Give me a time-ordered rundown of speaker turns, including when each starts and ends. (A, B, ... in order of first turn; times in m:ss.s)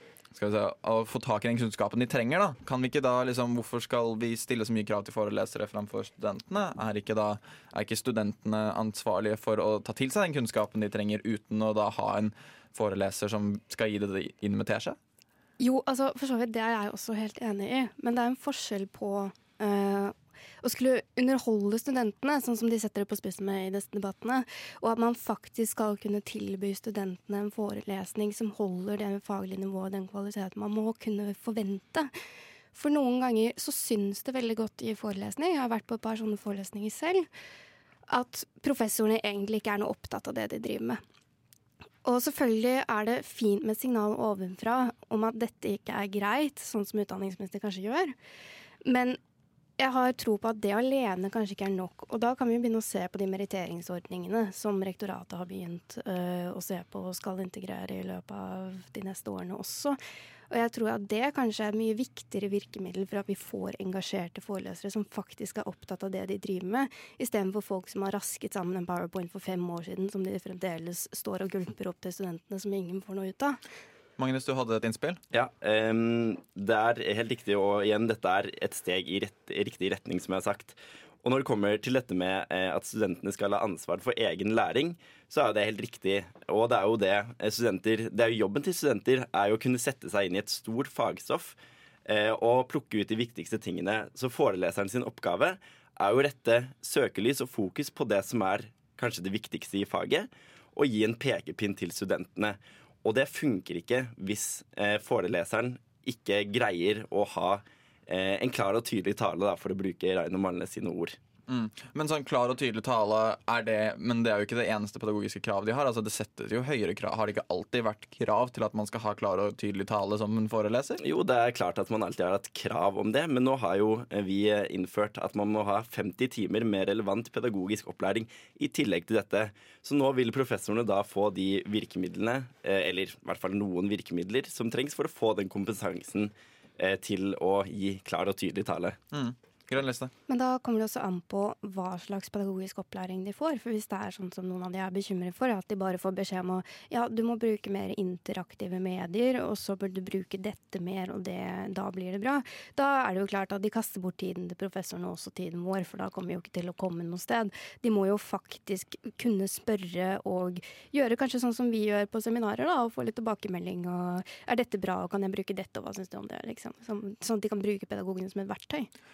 0:00.3-0:15.0 A
0:15.6-0:32.1 B
0:32.7-0:37.3 B
0:38.1-0:41.0 B
0:42.0-0:48.1 B
0:48.8-0:49.2 B
0:49.8-1:00.0 B
1:00.5-1:13.6 B
1:14.2-1:15.2 A
1:15.3-1:31.6 C
1:32.1-1:51.2 C
1:51.5-2:01.0 A
2:01.0-2:19.0 C
2:19.1-2:20.1 A
2:20.3-2:48.9 B